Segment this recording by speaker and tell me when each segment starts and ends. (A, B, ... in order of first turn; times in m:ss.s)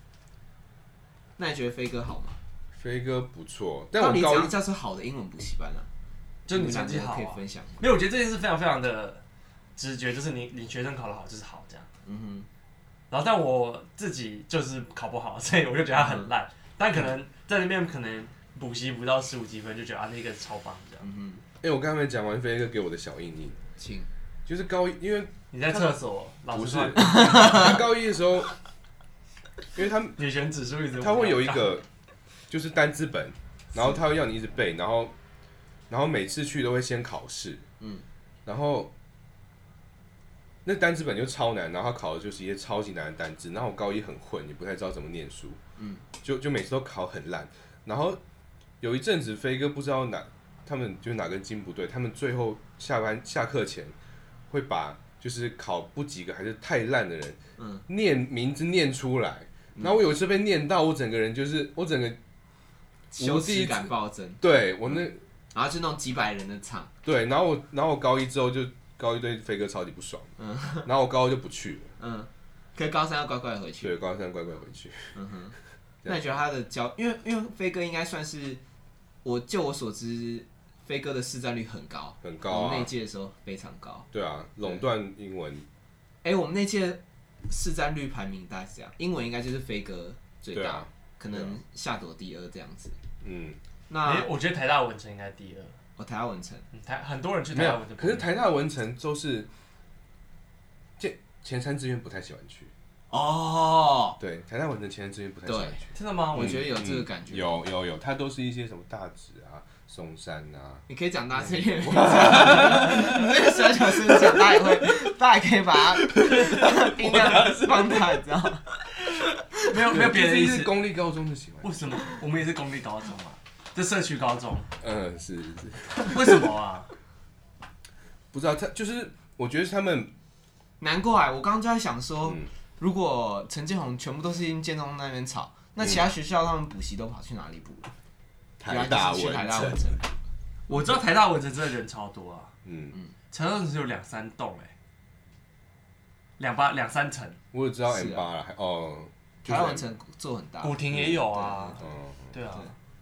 0:01.4-0:02.4 A
0:02.8-0:04.5 B
0:04.0-0:05.9 A
0:06.5-0:09.2 C
0:06.5-0:07.9 A
0:09.8-0:11.9 C
0:12.0-0:12.5 A
0:13.1-0:21.1 C
0:15.9-0:16.3 A
0:21.0-0:21.4 A
0:21.6-0:23.6 B
0:23.8-0:24.1 A
0:24.5-0:25.9 B
0:25.5-0:27.7 C
0:26.5-0:28.5 B
0:27.2-0:27.7 A
0:29.7-0:30.2 B
0:30.2-0:31.7 C
0:31.0-0:31.9 B
0:32.5-0:35.1 B
0:35.9-0:37.7 B
0:38.5-0:38.9 B
0:40.6-0:45.6 B
0:45.8-0:46.0 A
0:46.2-0:48.2 B
0:48.8-0:54.0 B
0:54.5-1:02.2 B
0:57.6-0:57.8 A
1:03.1-1:04.4 A
1:03.2-1:05.2 B
1:05.5-1:06.9 A
1:07.0-1:10.3 B
1:10.4-1:10.9 A
1:10.8-1:11.9 B
1:12.0-1:14.0 A
1:13.8-1:15.1 B
1:15.2-1:18.6 A
1:16.0-1:16.4 B
1:19.2-1:24.1 A
1:22.2-1:22.9 B
1:24.1-1:25.7 B
1:26.2-1:33.0 A
1:30.5-1:31.6 B
1:33.2-1:33.6 B
1:33.9-1:34.3 A
1:34.0-1:35.7 C
1:36.0-1:36.6 A
1:36.7-1:38.3 C
1:37.5-1:39.5 B
1:41.0-1:42.7 B
1:43.1-1:44.2 A
1:44.2-1:50.8 B
1:45.5-1:45.8 A
1:45.9-1:46.7 C
1:46.3-1:47.6 A
1:50.9-1:58.8 A
1:51.5-1:54.5 B
1:56.0-1:58.0 B
1:59.6-2:00.7 C
1:59.9-2:02.0 B
2:01.6-2:04.7 C
2:04.8-2:06.4 B
2:06.1-2:06.9 C
2:08.3-2:10.1 B
2:10.8-2:17.9 A
2:18.6-2:19.8 B
2:18.7-2:20.1 A
2:20.7-2:22.5 C
2:22.6-2:22.9 B
2:23.3-2:24.7 C
2:26.4-2:27.4 C
2:27.5-2:29.8 B
2:27.9-2:28.3 A
2:29.4-2:31.7 A
2:30.6-2:31.8 C
2:31.8-2:32.3 B
2:32.3-2:32.7 C